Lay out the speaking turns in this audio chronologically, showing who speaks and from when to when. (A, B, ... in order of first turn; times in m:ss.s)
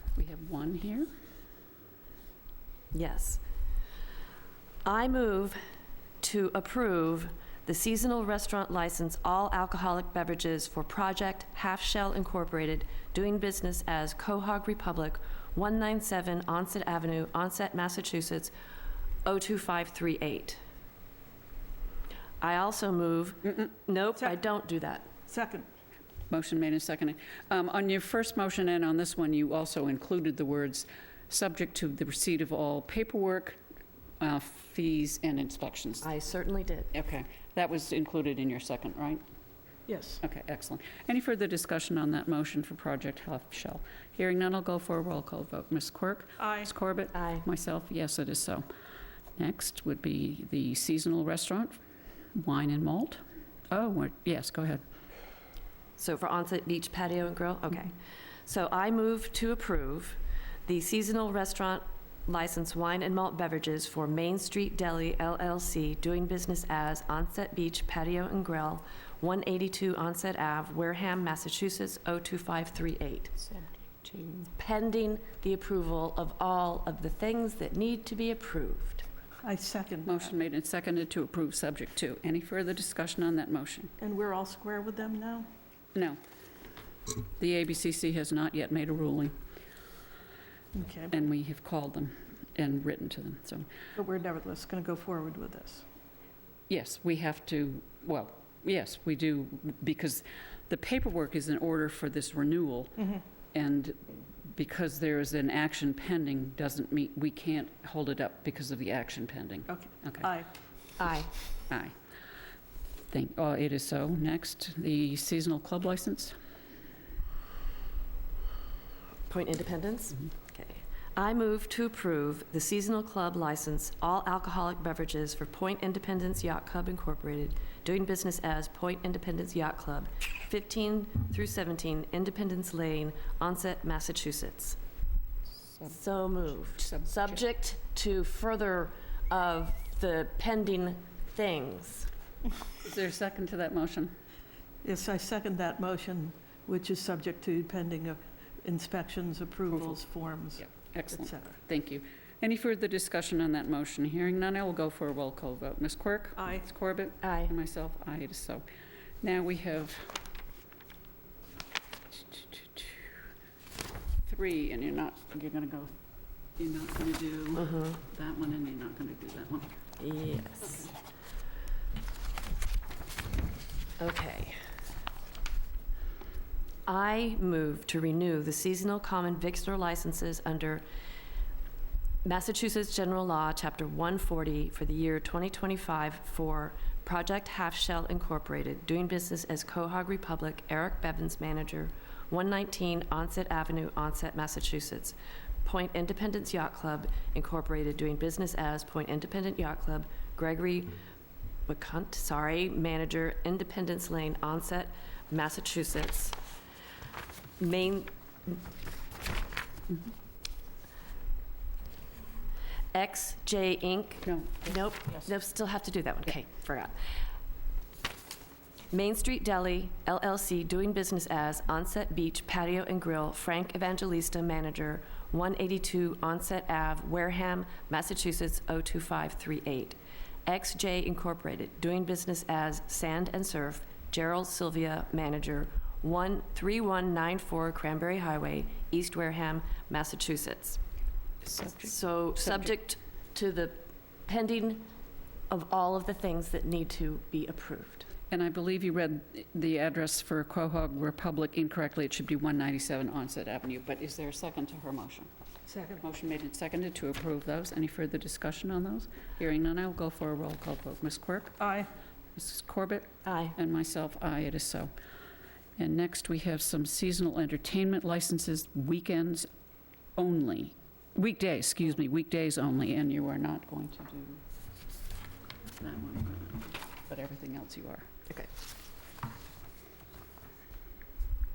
0:00.2-0:01.1 A
0:02.9-0:03.4 B
0:04.8-0:05.6 B
0:06.2-0:18.5 B
0:19.2-0:20.6 B
0:22.4-0:25.1 B
0:25.3-0:25.7 C
0:26.3-0:33.6 A
0:34.2-0:36.1 A
0:36.0-0:36.9 B
0:36.9-0:39.2 A
0:39.9-0:40.2 C
0:40.2-0:48.6 A
0:46.4-0:46.7 C
0:47.1-0:47.5 B
0:49.4-0:51.8 A
0:52.4-0:54.8 A
0:56.0-0:58.0 B
0:58.5-1:13.4 B
1:13.5-1:14.5 A
1:14.6-1:19.0 B
1:19.4-1:20.3 C
1:20.1-1:23.9 A
1:24.0-1:25.5 C
1:27.4-1:29.4 A
1:30.7-1:31.2 C
1:31.1-1:33.7 A
1:34.0-1:35.8 C
1:36.7-1:50.3 A
1:49.7-1:50.5 C
1:51.0-1:51.3 B
1:53.1-1:56.4 A
1:59.3-2:14.8 B
2:15.9-2:22.1 B
2:16.8-2:17.4 A
2:22.8-2:24.1 A
2:24.8-2:31.6 C
2:30.6-2:38.6 A
2:36.4-2:36.6 C
2:37.2-2:37.5 B
2:39.2-2:40.2 A
2:42.2-2:43.0 A
2:44.3-2:45.9 A
2:46.6-2:49.7 A
2:47.6-2:48.0 B
2:50.0-2:50.9 B
2:50.6-2:50.9 A
2:54.0-2:54.6 B
2:56.9-3:00.8 B
3:02.2-3:21.0 B
3:21.7-3:26.4 B
3:27.6-3:28.6 B
3:32.9-3:37.0 B
3:34.3-3:35.3 A
3:38.9-4:00.8 B
4:01.4-4:02.7 A
4:01.8-4:04.9 B
4:05.5-4:08.1 B
4:08.3-4:15.3 A
4:15.7-4:16.0 C
4:16.0-4:21.6 A
4:21.6-4:21.9 C
4:22.4-4:24.9 A
4:23.2-4:23.6 B
4:25.8-4:29.5 A
4:30.2-4:34.4 A
4:35.8-4:38.1 A